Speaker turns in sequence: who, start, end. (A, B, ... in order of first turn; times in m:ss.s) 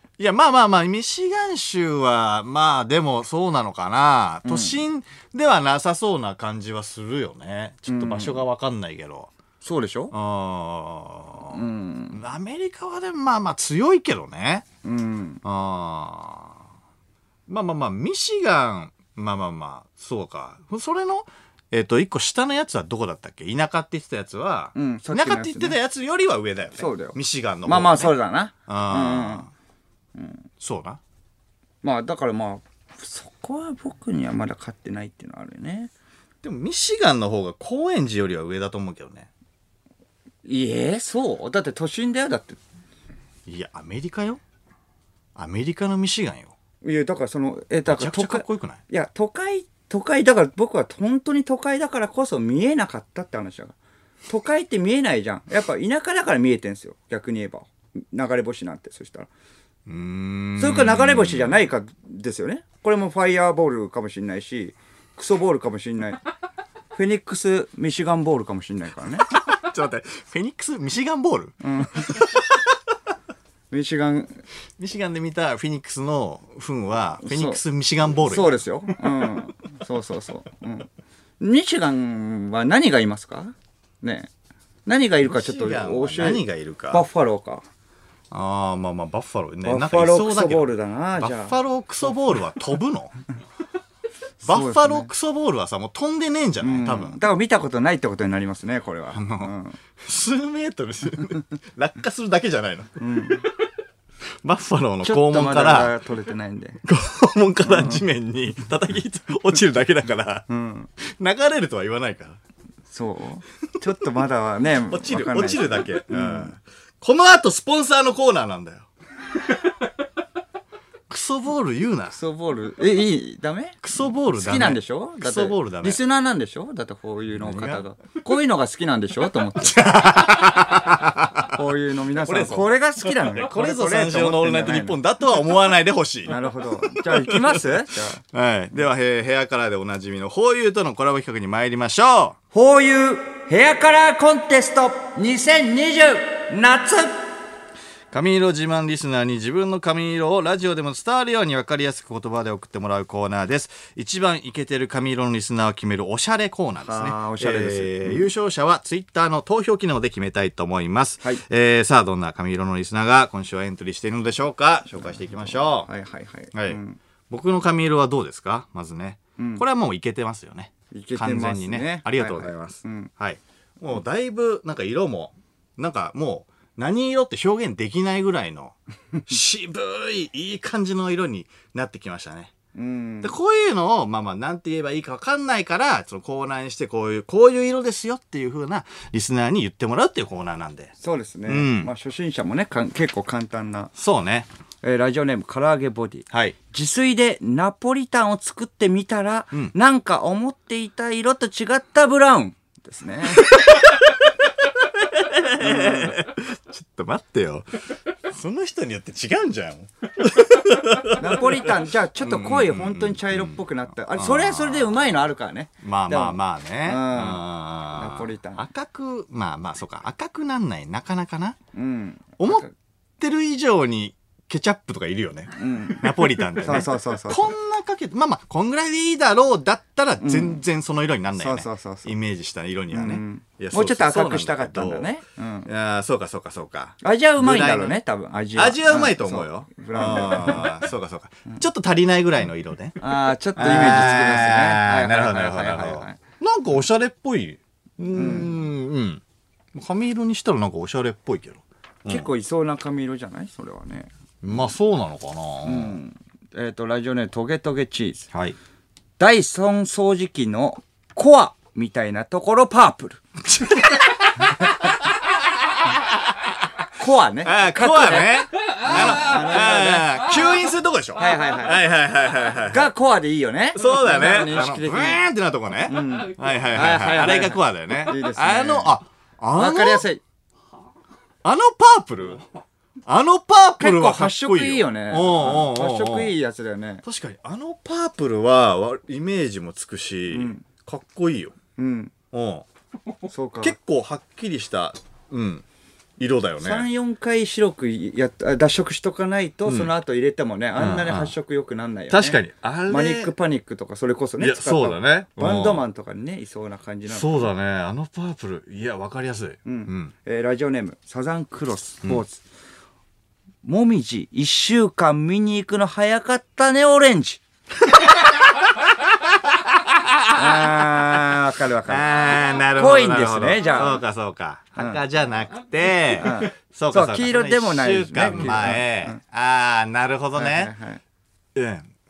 0:00.2-0:09.3 A
0:04.4-0:04.8 B
0:07.9-0:08.4 B
0:09.6-0:10.1 B
0:10.1-0:14.6 A
0:11.5-0:12.2 B
0:14.8-0:15.4 B
0:15.4-0:16.6 A
0:17.5-0:28.1 A
0:24.7-0:25.8 B
0:26.8-0:29.5 B
0:28.7-0:29.5 A
0:30.1-0:30.4 B
0:30.6-0:31.0 A
0:31.8-0:35.9 B
0:36.4-0:39.3 A
0:40.4-0:42.6 B
0:43.5-0:44.4 A
0:45.4-0:46.5 A
0:46.8-0:53.7 B
0:47.9-0:48.8 A
0:54.3-0:59.3 B
0:59.9-1:01.6 A
1:00.6-1:06.2 B
1:06.9-1:09.3 B
1:09.3-1:12.6 A
1:11.6-1:12.3 B
1:13.7-1:14.4 B
1:14.8-1:18.6 A
1:17.2-1:17.6 B
1:18.2-1:24.3 B
1:24.9-1:27.6 B
1:25.2-1:27.0 A
1:28.3-1:33.1 A
1:29.6-1:31.6 B
1:34.4-1:35.1 B
1:34.4-1:37.2 A
1:36.6-1:39.8 B
1:39.1-1:43.2 A
1:43.0-1:43.5 B
1:44.4-1:46.0 A
1:45.0-1:46.8 B
1:46.8-1:50.5 A
1:47.6-1:48.0 B
1:50.5-1:50.9 B
1:51.0-1:52.4 A
1:52.9-1:56.5 B
1:54.8-1:58.9 A
2:01.1-2:02.2 A
2:02.1-2:10.3 B
2:03.8-2:06.0 A
2:07.3-2:07.8 A
2:09.7-2:11.6 A
2:11.5-2:15.0 B
2:12.1-2:17.6 A
2:16.3-2:18.2 B
2:18.3-2:22.4 A
2:22.5-2:27.2 B
2:28.1-2:45.9 A
2:36.8-2:38.3 B
2:44.9-2:47.0 B
2:46.5-3:02.5 A
2:49.4-2:49.6 B
2:50.9-2:53.1 B
3:02.7-3:03.3 B
3:03.2-3:10.9 A
3:11.0-3:13.9 B
3:11.5-3:11.9 A
3:14.0-3:14.5 A
3:14.8-3:23.6 B
3:23.5-3:35.1 A
3:25.6-3:26.2 B
3:31.2-3:38.6 B
3:35.8-3:41.6 A
3:41.7-3:42.7 B
3:42.4-3:42.7 A
3:43.2-3:55.1 A
3:45.6-3:47.5 B
3:50.2-3:50.6 B
3:51.4-3:52.1 B
3:52.9-3:55.7 B
3:55.6-3:58.0 A
3:57.0-4:00.7 B
3:58.6-4:09.2 A
4:03.0-4:06.2 B
4:08.1-4:08.5 B
4:09.7-4:12.3 A
4:12.1-4:14.1 B
4:14.4-4:16.0 A
4:15.6-4:18.3 B
4:19.2-4:24.0 B
4:23.6-4:23.9 A
4:25.9-4:26.2 A
4:27.0-4:30.3 B
4:27.4-4:32.9 A
4:31.2-4:31.8 B
4:32.7-4:35.2 B
4:33.7-4:40.0 A
4:35.8-4:39.0 B
4:39.5-4:40.2 B
4:41.4-4:42.4 A
4:43.0-4:46.3 A
4:43.8-4:47.0 B
4:47.0-4:51.6 A
4:50.3-4:50.6 B
4:51.8-4:52.1 B
4:52.3-4:52.6 A
4:53.3-4:53.8 B
4:53.6-4:55.6 A
4:56.2-4:56.9 A
4:56.6-5:07.5 B
5:00.8-5:01.3 A
5:02.1-5:03.3 A
5:04.4-5:05.8 A
5:07.1-5:10.1 A
5:09.6-5:12.4 B
5:13.6-5:17.4 B
5:19.3-5:30.7 A
5:20.3-5:24.0 B
5:26.1-5:29.2 B
5:30.4-5:31.0 B
5:31.6-5:31.9 A